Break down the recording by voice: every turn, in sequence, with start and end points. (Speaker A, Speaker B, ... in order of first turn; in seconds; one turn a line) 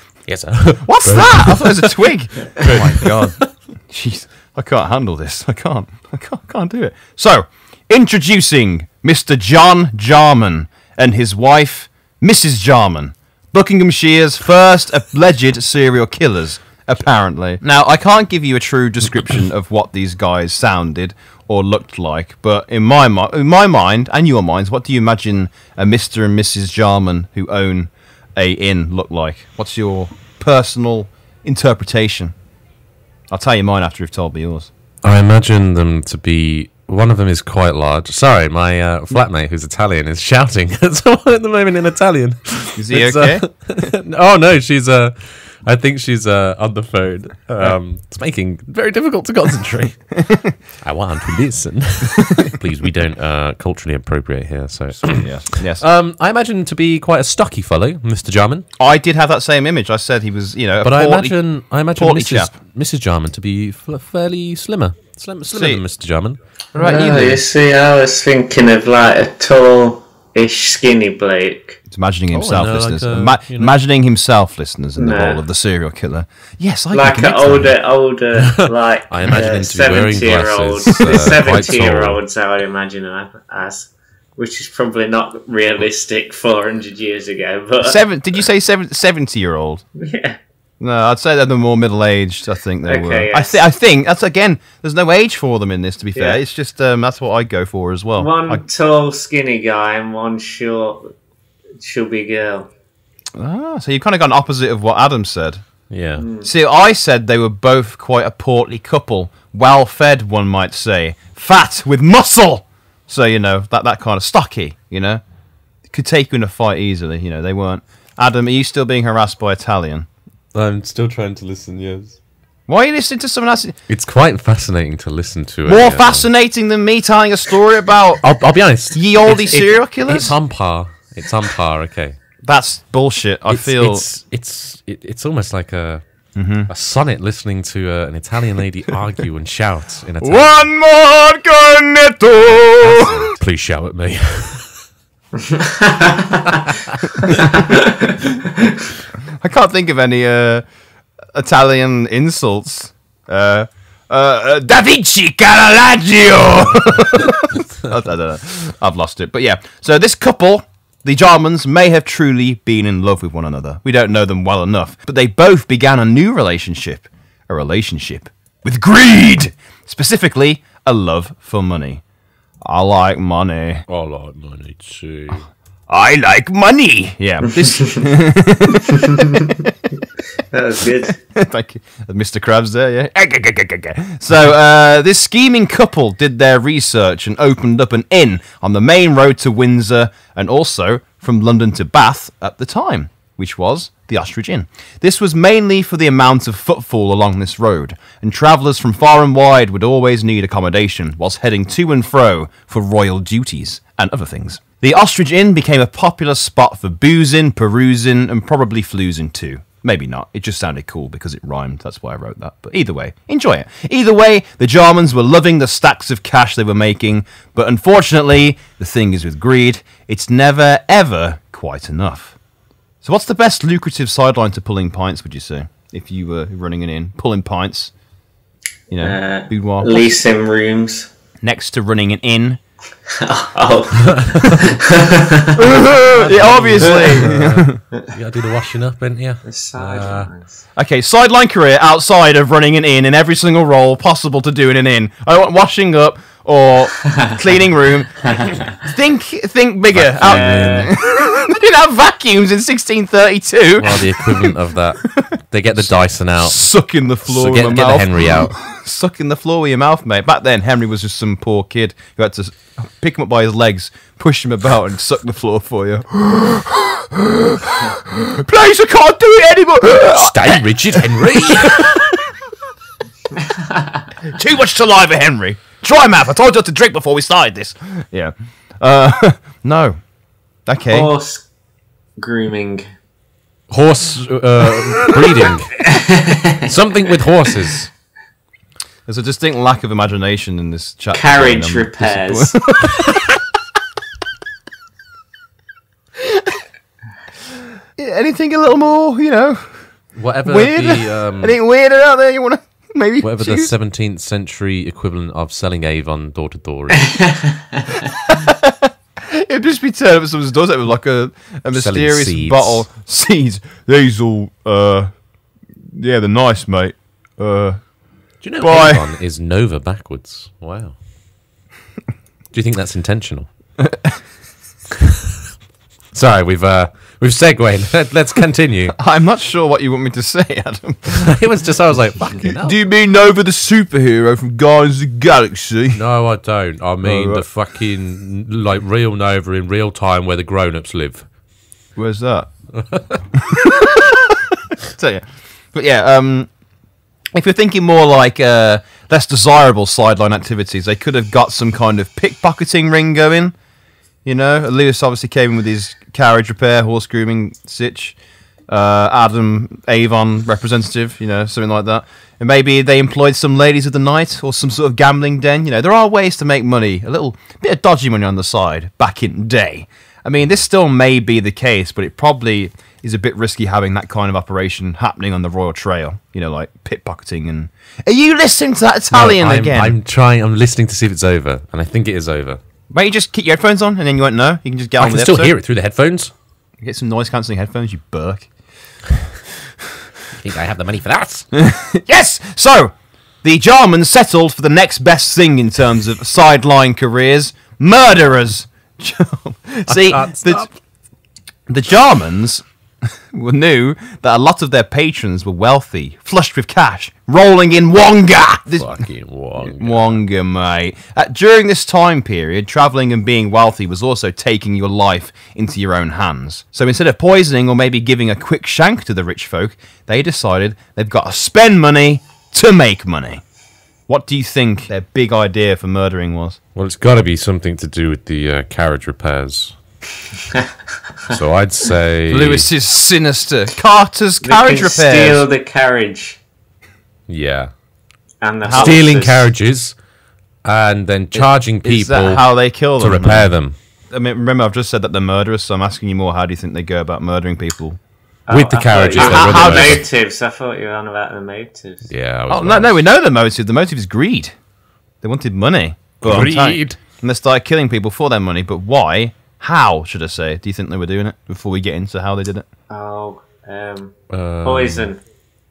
Speaker A: 0.3-2.0
Speaker B: 0.8-32.4
Speaker A: 2.6-3.5
Speaker B: 33.3-34.7
Speaker A: 35.0-50.2
Speaker B: 42.8-43.5
Speaker B: 50.2-50.5
Speaker A: 50.8-58.7
Speaker B: 55.0-55.8
Speaker B: 58.8-61.4
Speaker A: 60.8-66.4
Speaker B: 61.9-62.5
Speaker B: 65.5-65.8
Speaker C: 66.8-71.8
Speaker B: 66.8-67.4
Speaker B: 71.9-77.7
Speaker A: 72.3-73.8
Speaker C: 75.0-75.4
Speaker C: 76.9-88.0
Speaker A: 78.5-82.2
Speaker B: 87.8-89.8
Speaker C: 90.0-90.4
Speaker B: 90.8-98.6
Speaker C: 92.9-93.6
Speaker C: 96.2-96.4
Speaker C: 98.2-101.1
Speaker C: 101.8-102.7
Speaker B: 103.4-105.6
Speaker A: 105.9-106.2
Speaker C: 106.2-106.5
Speaker B: 106.4-115.2
Speaker B: 115.9-120.1
Speaker A: 120.5-122.2
Speaker B: 122.7-123.8
Speaker A: 123.9-126.3
Speaker B: 125.7-128.2
Speaker A: 128.2-129.5
Speaker B: 128.9-130.4
Speaker A: 130.1-132.2
Speaker B: 132.4-134.1
Speaker A: 133.5-136.0
Speaker B: 136.3-136.7
Speaker A: 136.7-140.7
Speaker B: 140.2-143.3
Speaker A: 142.5-144.7
Speaker C: 145.4-146.5
Speaker A: 146.5-147.0
Speaker C: 147.6-148.7
Speaker B: 149.4-150.6
Speaker B: 151.3-172.0
Speaker B: 172.6-173.8
Speaker A: 173.9-175.5
Speaker B: 175.9-179.7
Speaker C: 180.5-181.2
Speaker B: 181.3-222.4
Speaker B: 223.0-227.9
Speaker B: 228.9-230.2
Speaker C: 228.9-231.1
Speaker B: 231.4-232.6
Speaker C: 233.1-235.6
Speaker B: 235.6-237.8
Speaker A: 236.1-240.3
Speaker C: 236.8-237.2
Speaker C: 239.4-240.5
Speaker B: 240.8-254.5
Speaker C: 248.2-248.7
Speaker A: 249.9-250.9
Speaker C: 250.2-250.9
Speaker A: 253.8-256.6
Speaker B: 255.0-255.4
Speaker B: 256.4-272.2
Speaker A: 257.2-258.6
Speaker A: 269.8-272.0
Speaker B: 274.3-280.0
Speaker B: 280.7-281.1
Speaker C: 280.9-281.4
Speaker C: 282.2-282.9
Speaker A: 283.7-285.9
Speaker C: 285.9-286.7
Speaker A: 286.6-287.9
Speaker B: 289.1-293.2
Speaker C: 291.1-292.5
Speaker B: 296.2-296.5
Speaker B: 298.0-299.9
Speaker A: 300.1-301.6
Speaker B: 300.5-303.7
Speaker A: 303.2-307.3
Speaker B: 308.3-315.1
Speaker A: 311.7-312.9
Speaker B: 315.9-317.9
Speaker A: 318.4-321.0
Speaker B: 318.6-319.1
Speaker A: 322.5-323.5
Speaker B: 323.8-324.2
Speaker A: 326.1-328.9
Speaker B: 329.0-331.4
Speaker A: 331.2-332.8
Speaker B: 332.4-336.0
Speaker A: 335.9-341.3
Speaker B: 337.0-337.4
Speaker B: 342.0-342.5
Speaker A: 342.7-343.2
Speaker B: 343.4-346.5
Speaker B: 347.3-353.5
Speaker B: 354.2-358.2
Speaker B: 358.7-380.0
Speaker A: 379.1-382.6
Speaker B: 382.9-385.6
Speaker A: 385.0-386.3
Speaker B: 386.8-388.5
Speaker A: 390.4-391.5
Speaker B: 391.5-400.7
Speaker A: 399.9-400.7
Speaker B: 401.7-402.6
Speaker B: 403.3-423.4
Speaker A: 408.8-410.2
Speaker B: 424.1-426.6
Speaker A: 426.8-429.8
Speaker A: 431.3-432.7
Speaker B: 432.3-435.4
Speaker C: 434.4-436.4
Speaker A: 437.3-437.7
Speaker C: 438.4-439.5
Speaker B: 438.6-439.0
Speaker A: 438.7-440.0
Speaker A: 440.6-442.5
Speaker B: 441.3-443.5
Speaker A: 443.0-443.8
Speaker B: 444.1-448.0
Speaker C: 448.5-452.1
Speaker A: 448.5-450.0
Speaker B: 449.1-450.0
Speaker A: 452.1-453.0
Speaker B: 452.5-454.6
Speaker B: 455.2-462.6
Speaker A: 456.2-457.0
Speaker C: 462.9-465.2
Speaker A: 464.3-465.1